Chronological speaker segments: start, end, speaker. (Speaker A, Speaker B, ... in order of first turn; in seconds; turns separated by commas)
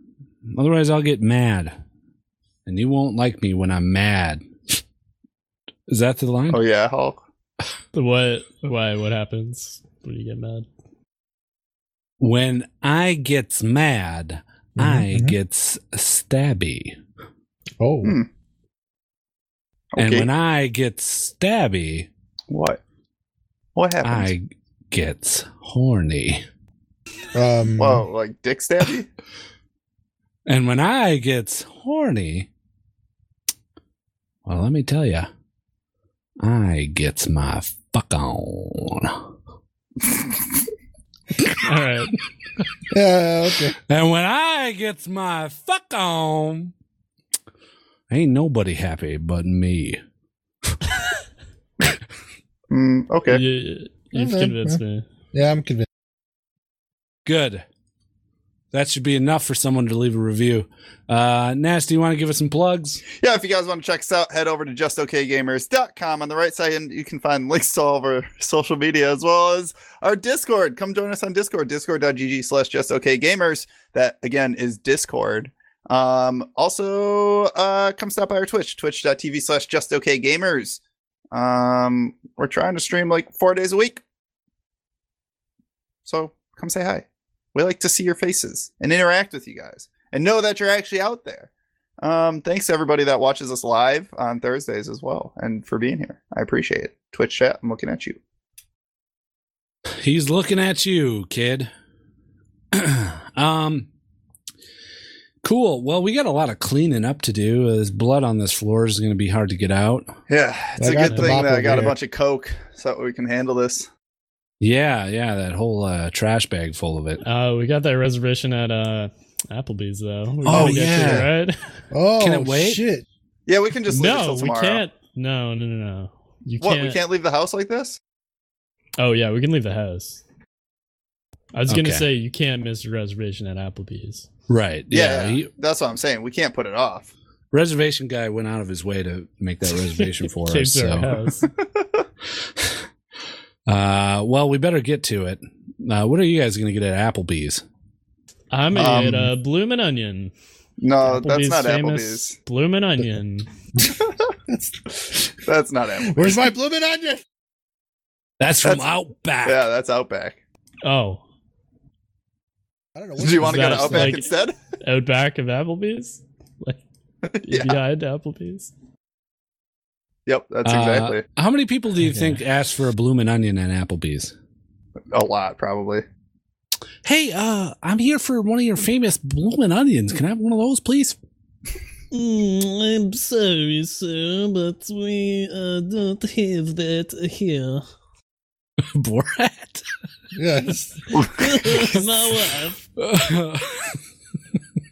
Speaker A: 0.5-1.8, Speaker A: 2.7-4.5, Speaker A: 5.9-6.6, Speaker B: 6.5-7.2, Speaker C: 7.9-10.7, Speaker A: 12.2-17.0, Speaker D: 14.8-15.4, Speaker D: 17.8-18.2, Speaker B: 19.9-20.3, Speaker A: 20.0-22.1, Speaker B: 22.5-22.8, Speaker B: 23.8-24.3, Speaker A: 24.0-26.4, Speaker D: 27.3-28.1, Speaker B: 27.8-29.1, Speaker A: 30.5-32.5, Speaker A: 34.5-35.3, Speaker A: 36.4-39.3, Speaker C: 41.6-42.1, Speaker D: 42.9-43.8, Speaker A: 43.9-46.7, Speaker A: 48.1-50.0, Speaker B: 52.7-53.4, Speaker C: 53.3-55.0, Speaker D: 54.1-54.8, Speaker D: 55.3-55.9, Speaker A: 57.3-57.6, Speaker A: 58.7-63.0, Speaker B: 63.2-80.8, Speaker B: 81.3-84.0, Speaker B: 86.1-91.5, Speaker B: 92.0-98.2, Speaker A: 100.0-101.7, Speaker A: 102.7-103.9, Speaker A: 105.4-110.1, Speaker B: 110.3-113.9, Speaker D: 110.8-112.0, Speaker C: 111.1-111.4, Speaker A: 114.6-117.2, Speaker C: 117.2-121.6, Speaker D: 120.5-121.3, Speaker A: 120.5-121.3, Speaker D: 121.9-123.0, Speaker A: 122.2-122.8, Speaker B: 123.5-124.8, Speaker C: 123.9-127.0, Speaker B: 126.6-128.0, Speaker C: 129.0-130.2, Speaker C: 131.5-134.3, Speaker A: 131.7-132.1, Speaker A: 134.5-135.5, Speaker B: 134.9-137.1, Speaker A: 137.5-141.1, Speaker C: 140.0-141.5, Speaker B: 141.6-142.0, Speaker A: 143.7-147.6, Speaker C: 148.5-150.3, Speaker B: 148.7-149.3, Speaker B: 150.8-152.4, Speaker C: 151.0-153.5, Speaker D: 154.5-155.3, Speaker B: 155.5-156.5, Speaker D: 156.1-157.2, Speaker A: 158.4-159.6, Speaker B: 159.4-160.4, Speaker C: 160.8-161.2, Speaker D: 163.0-164.2, Speaker B: 163.2-164.6, Speaker C: 163.4-164.3, Speaker C: 164.8-166.8, Speaker B: 167.3-167.8, Speaker C: 167.4-168.7, Speaker B: 170.3-171.2, Speaker A: 170.7-174.3, Speaker C: 172.1-172.4, Speaker B: 175.1-176.0, Speaker A: 177.1-181.2, Speaker E: 182.2-187.8, Speaker C: 183.2-187.7, Speaker A: 188.9-189.8, Speaker D: 190.3-191.2, Speaker E: 191.4-192.8, Speaker C: 191.7-192.7, Speaker A: 193.0-194.0